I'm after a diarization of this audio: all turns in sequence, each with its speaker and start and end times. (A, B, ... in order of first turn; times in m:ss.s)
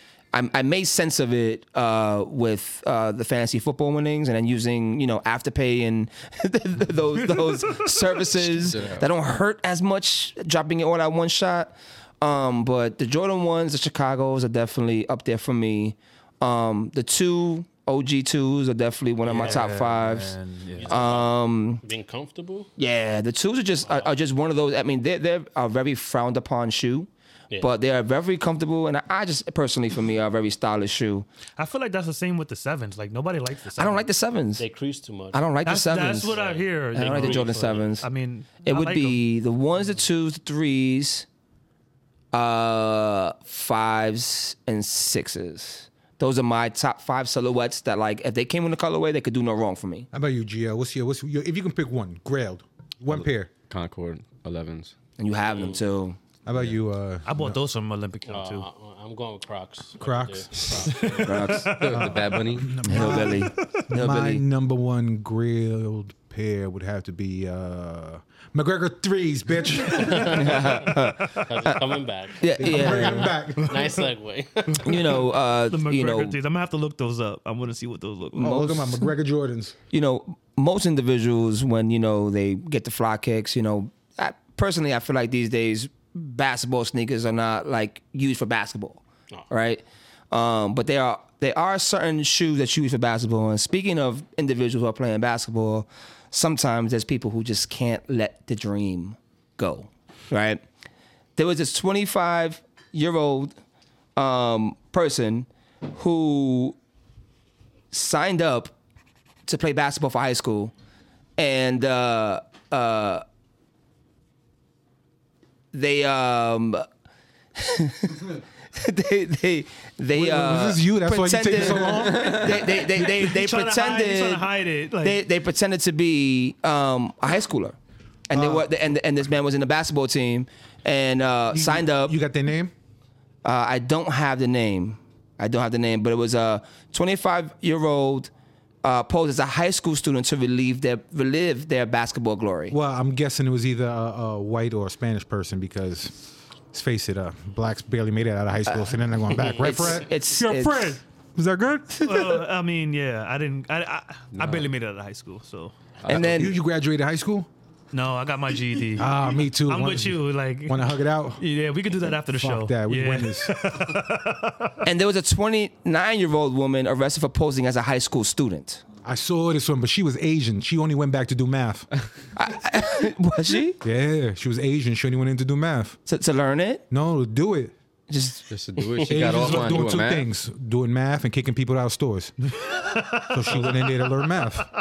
0:00.3-0:20.3 A
0:07.2-0:08.2 B
0:08.6-0:09.1 C
0:19.2-0:21.1 B
0:20.8-0:22.7 D
0:20.8-0:21.8 A
0:22.8-0:27.1 A
0:23.8-0:24.1 D
0:27.6-0:31.3 A
0:31.6-0:34.1 B
0:33.8-0:34.6 A
0:34.6-0:35.5 D
0:35.3-0:36.4 A
0:35.6-0:39.2 B
0:36.3-0:37.9 D
0:36.9-0:38.0 A
0:38.6-0:41.3 A
0:42.3-0:50.1 A
0:50.1-0:53.5 E
0:53.7-0:54.9 C
0:55.2-0:56.2 A
0:55.5-0:55.8 D
0:56.4-0:57.6 E
0:57.2-0:58.7 B
0:58.3-1:01.5 D
1:00.0-1:01.0 E
1:00.8-1:02.2 B
1:01.1-1:01.7 A
1:01.7-1:02.8 C
1:01.9-1:10.6 E
1:02.8-1:04.4 A
1:02.9-1:03.8 B
1:09.9-1:13.0 D
1:10.3-1:11.8 A
1:12.4-1:13.3 A
1:12.6-1:13.9 E
1:12.8-1:14.0 B
1:13.6-1:15.1 D
1:14.7-1:19.1 B
1:14.8-1:16.4 A
1:18.3-1:18.7 A
1:18.4-1:19.7 E
1:19.9-1:40.6 A
1:41.4-1:43.5 A
1:44.2-1:46.8 A
1:47.9-1:48.7 A
1:49.5-1:50.7 A
1:51.4-1:53.2 A
1:55.7-1:56.8 A
1:57.6-2:04.5 A
2:00.1-2:02.4 E
2:02.2-2:05.2 B
2:05.0-2:07.8 A
2:08.3-2:12.1 A
2:08.3-2:08.7 E
2:11.5-2:12.7 E
2:13.4-2:18.3 A
2:18.8-2:22.7 A
2:22.7-2:26.1 E
2:26.7-2:32.1 E
2:29.6-2:31.0 A
2:32.0-2:35.8 B
2:34.3-2:34.7 C
2:36.0-2:36.5 A
2:36.0-2:37.5 E
2:37.9-2:44.8 B
2:38.9-2:41.4 E
2:42.3-2:44.0 E
2:44.8-2:48.8 A
2:49.0-2:51.9 E
2:52.4-2:53.8 A
2:53.8-2:56.0 E
2:56.0-2:56.8 A
2:56.9-2:57.7 E
2:58.1-2:58.5 A
2:58.5-3:00.3 C
2:59.0-2:59.4 D
2:59.1-3:02.6 E
3:02.8-3:03.7 B
3:03.2-3:04.7 E